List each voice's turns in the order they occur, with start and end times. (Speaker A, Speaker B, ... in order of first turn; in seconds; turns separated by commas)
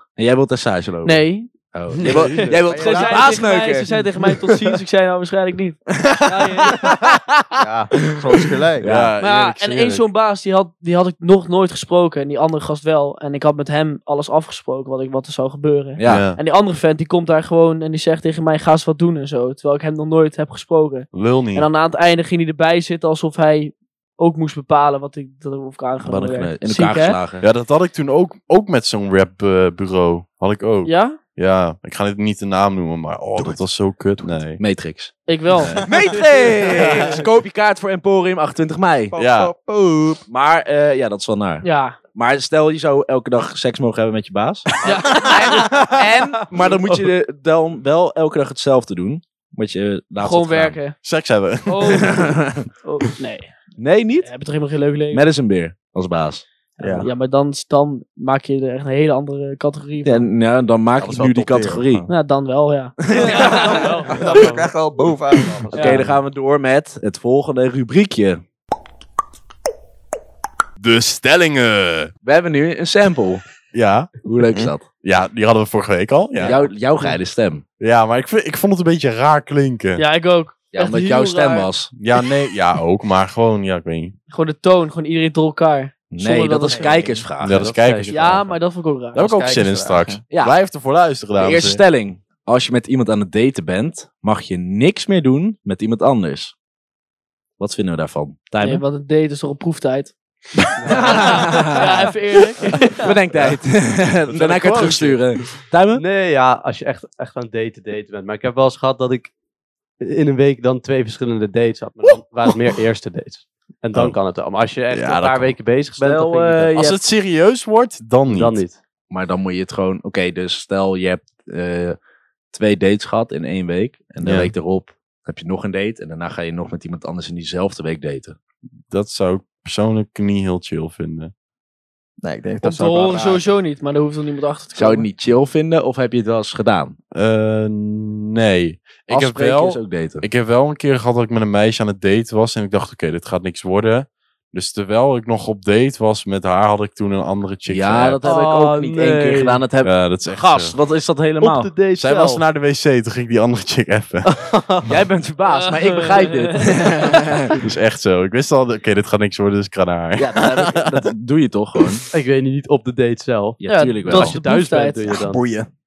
Speaker A: 0.2-4.4, Speaker B: 1.0-1.5, Speaker C: 2.0-2.6, Speaker B: 2.1-7.0, Speaker D: 2.6-3.5, Speaker A: 5.9-9.1, Speaker D: 7.6-8.9, Speaker C: 8.8-10.0, Speaker B: 9.2-27.2, Speaker A: 16.0-16.3, Speaker C: 16.0-16.4, Speaker C: 21.1-21.7, Speaker A: 26.0-27.5, Speaker C: 27.4-34.6, Speaker B: 30.8-31.2, Speaker D: 33.4-33.6, Speaker A: 34.6-39.2, Speaker B: 35.3-35.9, Speaker D: 35.9-36.7, Speaker D: 39.1-40.2, Speaker C: 39.2-39.5, Speaker A: 40.3-50.8, Speaker B: 41.6-42.0, Speaker B: 44.8-46.4, Speaker E: 44.8-45.8, Speaker B: 50.2-51.0, Speaker C: 51.0-52.2, Speaker B: 51.7-52.3, Speaker A: 51.9-52.6, Speaker B: 52.8-53.5, Speaker A: 53.8-54.3, Speaker B: 54.2-55.2, Speaker A: 55.1-57.0, Speaker D: 56.8-57.1, Speaker B: 56.8-60.3, Speaker A: 60.0-62.0, Speaker D: 61.0-62.1, Speaker B: 62.1-64.1, Speaker A: 63.1-64.0, Speaker E: 63.1-64.7, Speaker D: 63.3-65.8, Speaker E: 65.3-66.0, Speaker B: 65.7-66.0, Speaker A: 65.7-68.4, Speaker C: 70.8-72.1, Speaker A: 72.2-73.4, Speaker C: 73.7-74.2, Speaker A: 74.2-74.8, Speaker C: 75.0-76.6, Speaker A: 76.4-77.6, Speaker C: 77.8-80.0, Speaker B: 80.0-81.7, Speaker A: 80.7-81.9, Speaker C: 81.9-84.1, Speaker B: 84.3-87.3, Speaker A: 86.1-87.8, Speaker D: 86.6-87.0, Speaker C: 87.4-88.5, Speaker E: 87.5-88.1, Speaker B: 88.1-89.3, Speaker C: 89.1-91.8, Speaker D: 89.2-90.2, Speaker A: 90.3-90.6, Speaker A: 91.4-96.5, Speaker A: 97.6-98.8, Speaker B: 98.6-100.1, Speaker E: 100.8-102.0, Speaker A: 100.9-102.1, Speaker B: 100.9-103.1, Speaker A: 103.0-106.0, Speaker C: 104.3-105.5, Speaker E: 104.6-104.9, Speaker E: 105.9-109.3, Speaker E: 110.0-116.7, Speaker C: 114.9-115.5, Speaker A: 116.0-117.0, Speaker C: 116.7-118.6, Speaker E: 118.3-118.8, Speaker A: 119.1-122.0, Speaker A: 122.5-128.3, Speaker C: 124.2-124.5, Speaker C: 128.9-131.3, Speaker D: 132.2-133.4, Speaker B: 132.6-135.1, Speaker A: 134.7-136.9, Speaker C: 137.1-148.2, Speaker A: 139.1-140.2, Speaker A: 147.7-151.7, Speaker E: 148.2-149.6, Speaker C: 149.8-150.8, Speaker E: 151.4-152.4, Speaker C: 151.9-154.3, Speaker E: 154.4-154.9, Speaker A: 154.8-157.6, Speaker B: 155.5-156.6, Speaker C: 157.6-161.1, Speaker A: 160.2-162.0, Speaker E: 162.1-165.4, Speaker A: 163.6-164.3, Speaker B: 163.7-165.2, Speaker D: 165.1-165.7